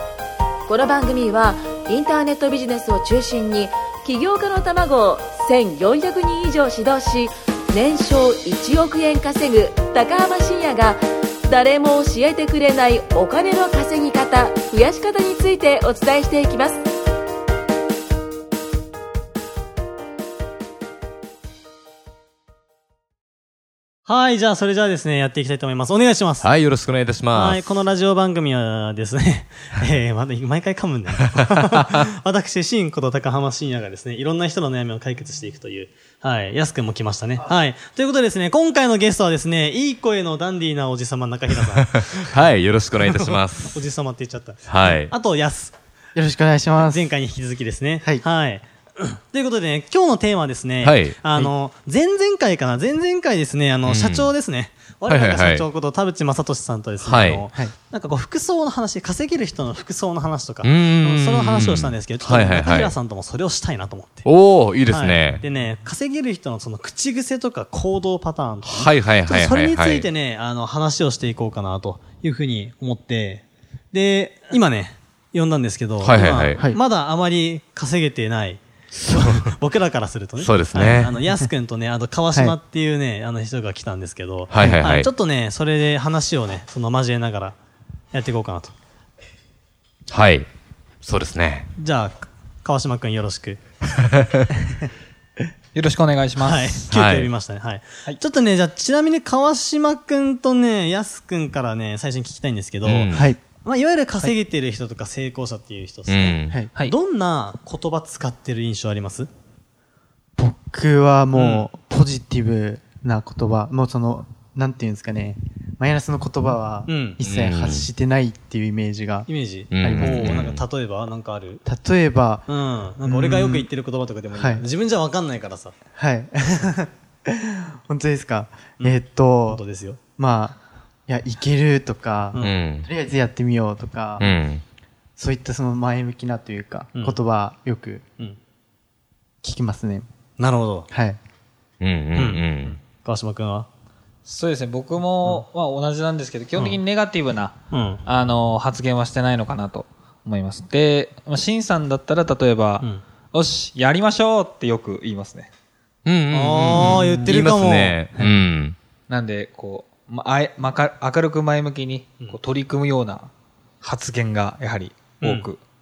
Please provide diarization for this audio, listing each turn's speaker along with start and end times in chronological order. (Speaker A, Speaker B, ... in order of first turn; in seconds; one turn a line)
Speaker A: 0.7-16.8
Speaker B: 24.1-26.5
Speaker C: 26.4-27.6
Speaker B: 27.3-42.4
Speaker C: 31.2-31.9
Speaker C: 42.3-43.8
Speaker B: 43.1-45.8
Speaker C: 44.6-45.1
Speaker D: 46.1-47.1
Speaker B: 46.8-64.3
Speaker C: 50.8-51.2
Speaker C: 53.9-54.3
Speaker C: 55.1-55.6
Speaker C: 57.0-57.4
Speaker C: 60.6-62.9
Speaker C: 64.2-65.4
Speaker B: 64.8-87.5
Speaker C: 68.7-70.1
Speaker C: 76.0-76.6
Speaker C: 80.4-81.1
Speaker C: 84.5-85.1
Speaker D: 84.6-84.8
Speaker B: 88.1-88.7
Speaker C: 90.1-90.5
Speaker C: 91.0-91.7
Speaker B: 91.8-93.6
Speaker E: 95.7-96.8
Speaker B: 96.4-109.3
Speaker C: 96.9-97.3
Speaker C: 102.8-103.3
Speaker D: 103.1-103.4
Speaker C: 106.1-106.6
Speaker D: 110.4-120.6
Speaker B: 111.3-111.7
Speaker B: 116.8-117.2
Speaker C: 117.2-117.9
Speaker B: 119.3-121.6
Speaker C: 119.7-120.6
Speaker D: 121.6-122.5
Speaker B: 122.5-125.7
Speaker D: 123.0-123.7
Speaker D: 124.3-124.6
Speaker D: 126.0-129.6
Speaker B: 128.8-130.0
Speaker D: 130.2-134.3
Speaker C: 132.4-132.9
Speaker C: 134.2-134.6
Speaker D: 135.2-138.0
Speaker B: 136.9-137.2
Speaker D: 139.4-140.1
Speaker B: 140.4-140.9
Speaker D: 140.9-141.2
Speaker C: 141.8-142.8
Speaker B: 142.2-143.7
Speaker E: 144.2-155.5
Speaker B: 147.7-148.0
Speaker C: 156.0-158.8
Speaker B: 156.3-158.0
Speaker E: 156.8-157.2
Speaker E: 159.1-163.3
Speaker E: 163.8-165.6
Speaker B: 165.2-165.5